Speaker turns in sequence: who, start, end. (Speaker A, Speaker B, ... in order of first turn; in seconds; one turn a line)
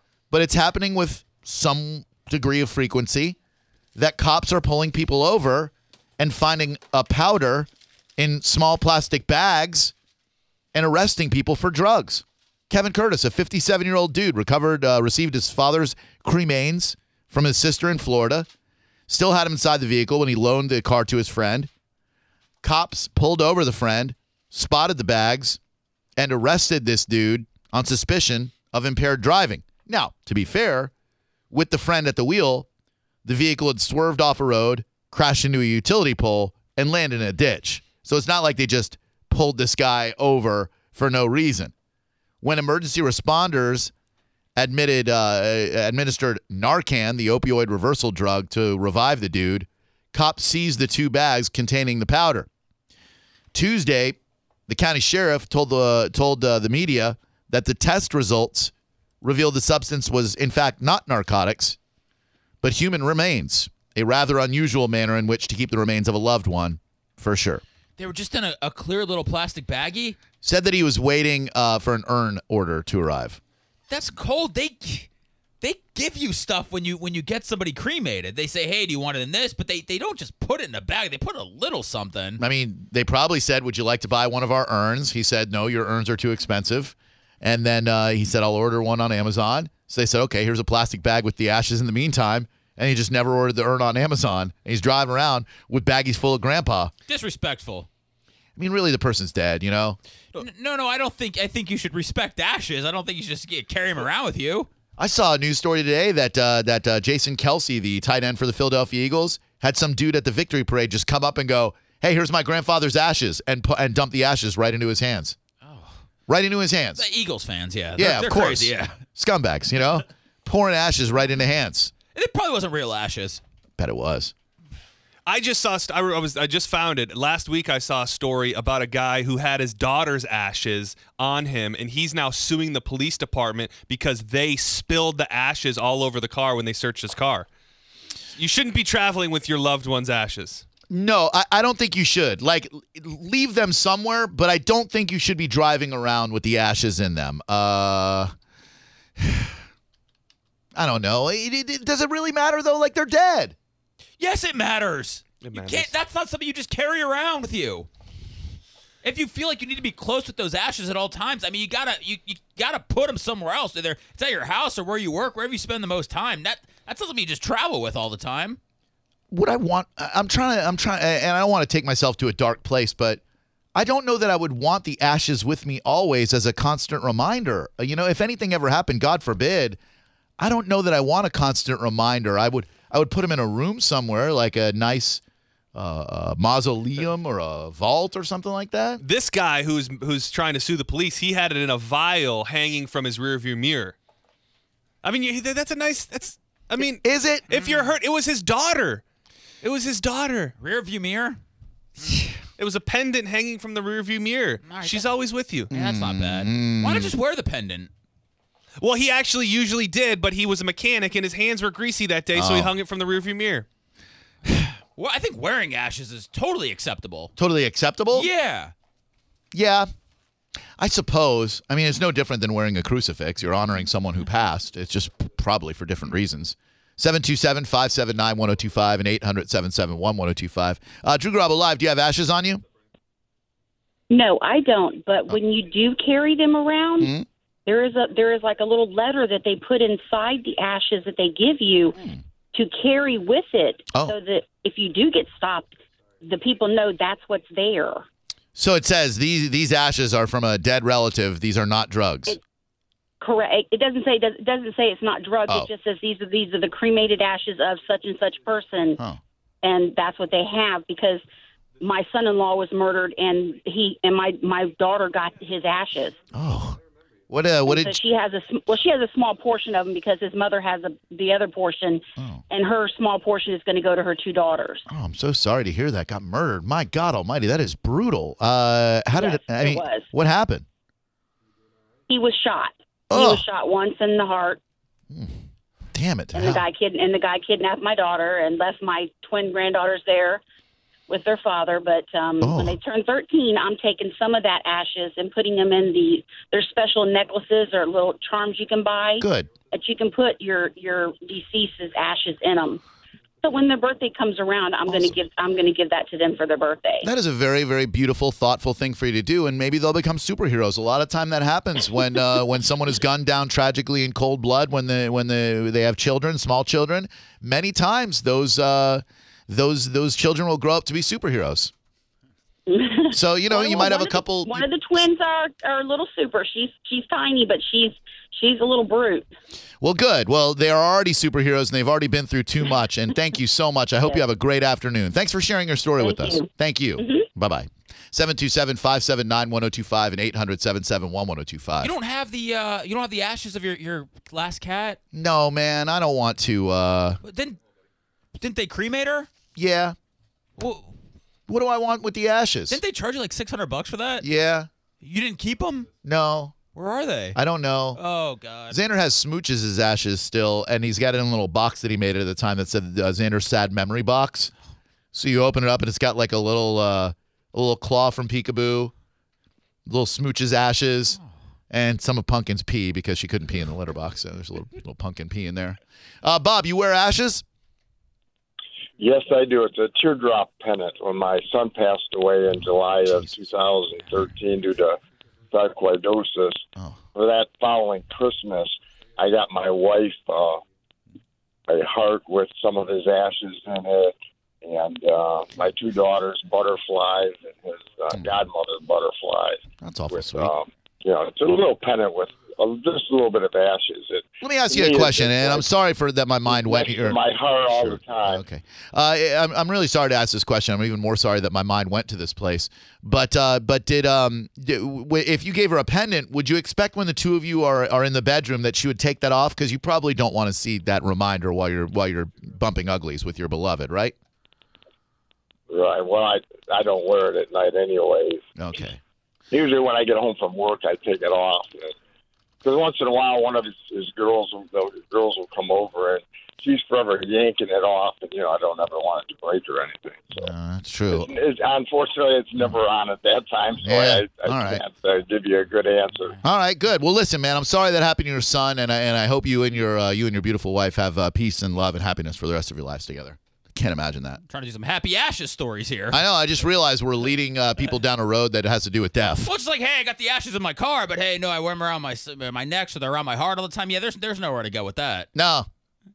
Speaker A: 0.3-3.4
Speaker A: 4.0-9.9
Speaker A: 10.7-18.5
Speaker A: 19.1-21.7
Speaker A: 22.6-25.6
Speaker A: 26.2-30.9
Speaker A: 31.5-32.7
Speaker A: 33.2-41.7
Speaker A: 42.4-43.9
Speaker A: 44.6-52.5
Speaker A: 53.5-54.2
Speaker A: 54.7-61.8
Speaker A: 62.6-67.6
Speaker B: 68.0-70.2
Speaker A: 70.4-73.4
Speaker B: 73.9-75.1
Speaker B: 75.6-82.4
Speaker A: 82.4-96.9
Speaker B: 97.1-97.9
Speaker A: 98.6-100.0
Speaker B: 100.4-104.7
Speaker A: 105.0-115.4
Speaker B: 115.6-116.0
Speaker A: 116.3-117.0
Speaker B: 117.0-119.0
Speaker A: 118.0-121.9
Speaker B: 122.1-123.4
Speaker A: 123.8-124.3
Speaker C: 125.3-137.5
Speaker C: 138.3-140.6
Speaker A: 140.9-148.3
Speaker A: 149.2-149.6
Speaker A: 150.8-153.6
Speaker B: 154.2-157.9
Speaker C: 155.4-155.9
Speaker B: 159.0-168.6
Speaker A: 169.3-173.2
Speaker A: 173.8-179.8
Speaker A: 180.4-185.2
Speaker A: 185.8-189.0
Speaker C: 189.0-194.0
Speaker C: 195.0-199.0
Speaker A: 197.0-197.5
Speaker B: 197.5-197.9
Speaker C: 199.6-200.5
Speaker B: 200.6-201.4
Speaker C: 202.6-205.7
Speaker B: 204.7-205.1
Speaker A: 205.7-207.1
Speaker B: 205.7-207.9
Speaker C: 208.8-213.7
Speaker A: 212.3-212.8
Speaker B: 215.0-217.3
Speaker A: 217.4-218.3
Speaker B: 218.1-218.7
Speaker A: 219.5-219.9
Speaker A: 220.8-232.6
Speaker D: 234.1-237.2
Speaker A: 237.0-237.2
Speaker D: 237.7-242.0
Speaker A: 242.0-242.2
Speaker D: 242.5-248.1
Speaker A: 248.6-252.4
Speaker D: 253.2-259.0
Speaker D: 259.6-261.2
Speaker D: 261.8-266.2
Speaker A: 266.3-268.0
Speaker D: 267.6-274.9
Speaker A: 272.2-272.4
Speaker A: 274.9-280.6
Speaker D: 279.1-280.1
Speaker D: 282.1-284.6
Speaker A: 283.1-283.4
Speaker A: 285.1-285.4
Speaker A: 285.9-286.6
Speaker D: 286.3-290.4
Speaker D: 291.1-302.8
Speaker A: 292.4-292.8
Speaker A: 299.2-299.5
Speaker D: 303.4-307.1
Speaker A: 304.9-305.2
Speaker A: 307.0-321.7
Speaker D: 322.7-329.3
Speaker A: 323.1-325.1
Speaker A: 329.8-341.9
Speaker D: 336.0-336.5
Speaker D: 337.0-337.3
Speaker B: 341.8-345.0
Speaker A: 345.1-347.2
Speaker B: 347.2-347.6
Speaker B: 348.4-349.3
Speaker A: 349.6-350.0
Speaker B: 350.6-350.9
Speaker A: 351.5-352.8
Speaker B: 352.7-354.3
Speaker A: 354.2-354.7
Speaker B: 355.0-355.9
Speaker A: 356.0-356.5
Speaker B: 356.8-357.4
Speaker A: 357.4-358.0
Speaker B: 357.9-358.8
Speaker A: 358.7-364.5
Speaker A: 365.1-368.9
Speaker A: 369.9-371.2
Speaker A: 371.7-377.4
Speaker E: 379.0-385.0
Speaker A: 383.0-383.3
Speaker E: 385.5-390.6
Speaker A: 386.8-387.0
Speaker E: 391.7-405.7
Speaker A: 399.8-400.5
Speaker A: 404.4-407.2
Speaker E: 406.5-408.4
Speaker A: 407.7-424.1
Speaker E: 425.7-428.4
Speaker A: 428.6-429.0
Speaker E: 429.5-431.9
Speaker E: 432.6-440.5
Speaker A: 440.4-441.3
Speaker E: 441.1-446.4
Speaker A: 443.8-444.8
Speaker A: 446.4-454.4
Speaker B: 454.5-456.2
Speaker A: 456.1-459.5
Speaker B: 459.4-465.3
Speaker A: 465.4-465.7